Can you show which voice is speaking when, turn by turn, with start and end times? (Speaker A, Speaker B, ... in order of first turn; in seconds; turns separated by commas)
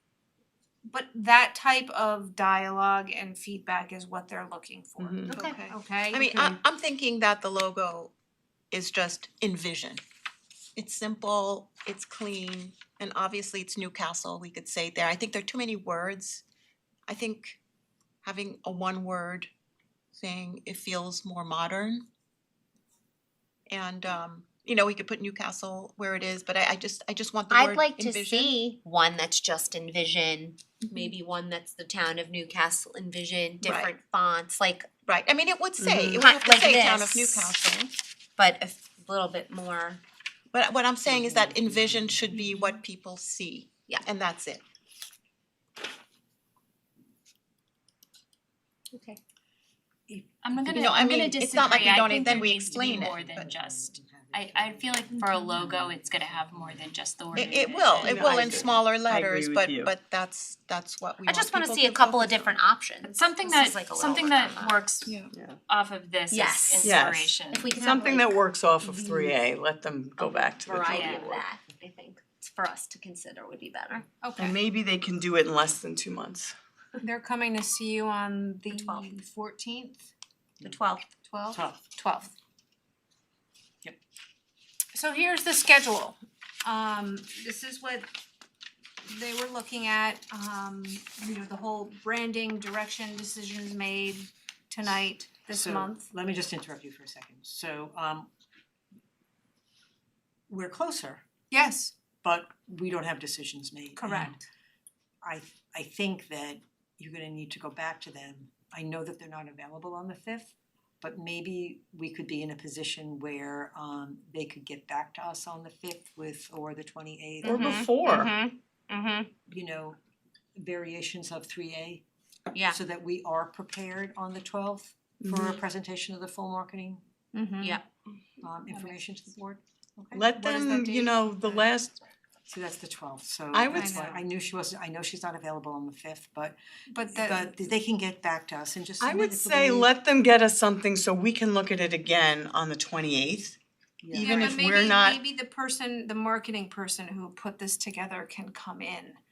Speaker A: 0.9-6.6, Speaker B: 5.0-5.3, Speaker C: 5.3-5.5, Speaker D: 5.3-8.1, Speaker D: 8.7-10.0, Speaker D: 10.8-16.4, Speaker D: 17.1-17.6, Speaker D: 18.2-19.5, Speaker D: 20.1-22.1, Speaker D: 23.7-28.6, Speaker C: 27.5-34.9, Speaker D: 33.6-33.9, Speaker D: 35.1-37.9, Speaker B: 35.8-36.2, Speaker C: 36.2-37.5, Speaker C: 38.4-40.0, Speaker D: 40.5-44.6, Speaker E: 41.0-42.4, Speaker C: 48.9-49.2, Speaker E: 50.1-56.9, Speaker F: 50.4-58.4, Speaker D: 50.7-53.2, Speaker D: 57.3-62.6, Speaker B: 58.0-59.9, Speaker C: 61.3-64.8, Speaker F: 63.0-67.7, Speaker B: 65.3-65.6, Speaker C: 66.3-69.3, Speaker B: 66.8-71.5, Speaker C: 70.2-74.1, Speaker F: 70.9-71.3, Speaker A: 74.2-74.6, Speaker B: 74.4-76.5, Speaker A: 77.0-80.1, Speaker C: 78.7-79.2, Speaker C: 80.6-81.1, Speaker A: 81.2-82.3, Speaker E: 81.5-81.8, Speaker A: 84.9-88.1, Speaker A: 89.0-96.1, Speaker E: 95.5-98.3, Speaker E: 100.5-101.2, Speaker A: 101.5-102.0, Speaker E: 102.2-104.4, Speaker A: 104.0-104.5, Speaker E: 105.2-117.9, Speaker C: 117.4-119.3, Speaker B: 117.5-118.3, Speaker E: 119.5-120.0, Speaker E: 120.6-122.0, Speaker C: 122.5-122.8, Speaker E: 122.7-127.0, Speaker B: 125.2-125.6, Speaker A: 127.3-127.8, Speaker E: 128.4-131.6, Speaker B: 130.1-132.0, Speaker A: 130.4-130.8, Speaker E: 132.5-136.6, Speaker B: 133.5-133.9, Speaker A: 133.7-134.2, Speaker A: 136.9-137.6, Speaker E: 137.1-139.9, Speaker B: 139.0-143.6, Speaker E: 144.0-144.6, Speaker B: 144.1-145.2, Speaker A: 144.1-149.2